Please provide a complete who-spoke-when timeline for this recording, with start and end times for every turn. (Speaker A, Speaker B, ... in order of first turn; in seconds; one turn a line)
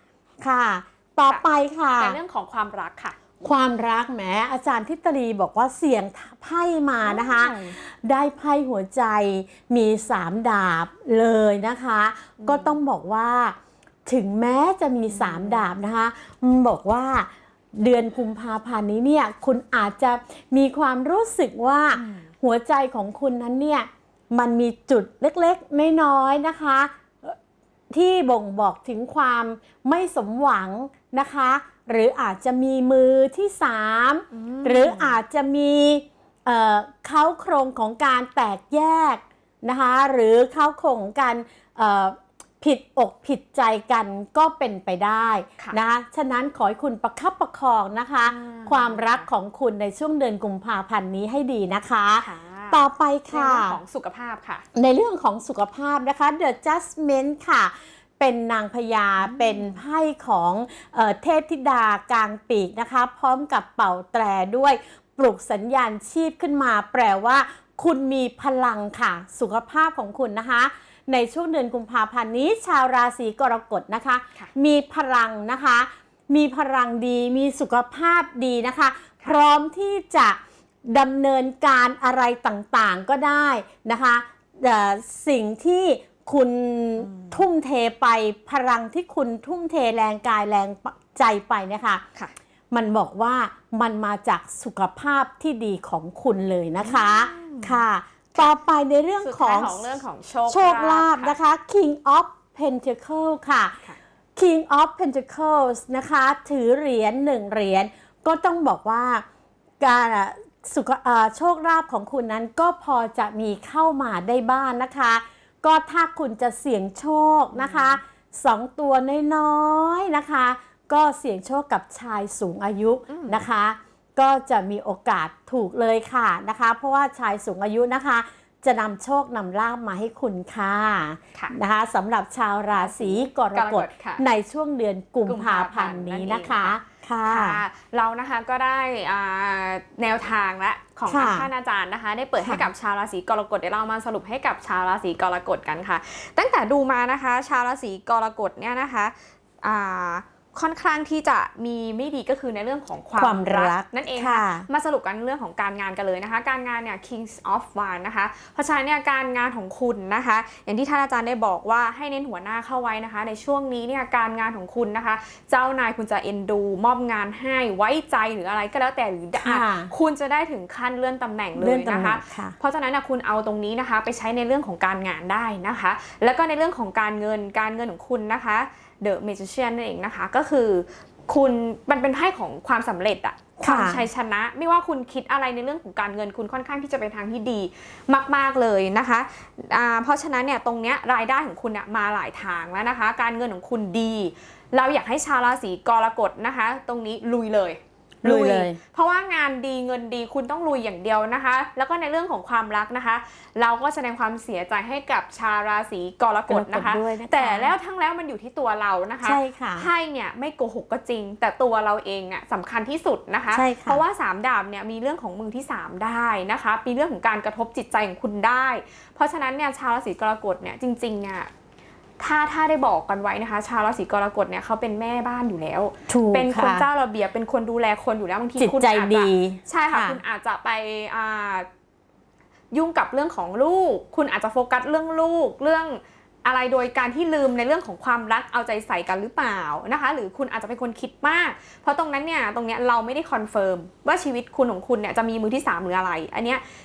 Speaker A: 0.4-2.2
Speaker B: 2.0-3.3
Speaker A: 3.4-27.4
Speaker B: 7.0-7.8
Speaker B: 12.4-12.8
Speaker B: 15.1-15.7
Speaker B: 21.9-22.3
Speaker A: 27.9-53.8
Speaker B: 34.3-35.2
Speaker B: 48.2-49.3
Speaker B: 52.2-54.6
Speaker A: 54.7-92.0
Speaker B: 59.2-59.8
Speaker B: 87.0-87.4
Speaker A: 92.7-99.9
Speaker B: 96.8-97.8
Speaker B: 99.2-101.4
Speaker A: 100.5-109.2
Speaker A: 109.8-137.6
Speaker B: 117.5-118.0
Speaker B: 123.1-123.4
Speaker B: 132.7-134.2
Speaker B: 135.2-221.5
Speaker A: 141.1-141.5
Speaker A: 142.4-142.7
Speaker A: 153.2-154.7
Speaker A: 169.4-169.9
Speaker A: 171.6-172.5
Speaker A: 183.6-184.1
Speaker A: 198.2-198.8
Speaker A: 206.5-207.7
Speaker A: 209.2-209.9
Speaker A: 213.5-214.0
Speaker B: 222.2-231.7
Speaker A: 226.1-226.8
Speaker A: 228.6-230.2
Speaker B: 232.7-246.6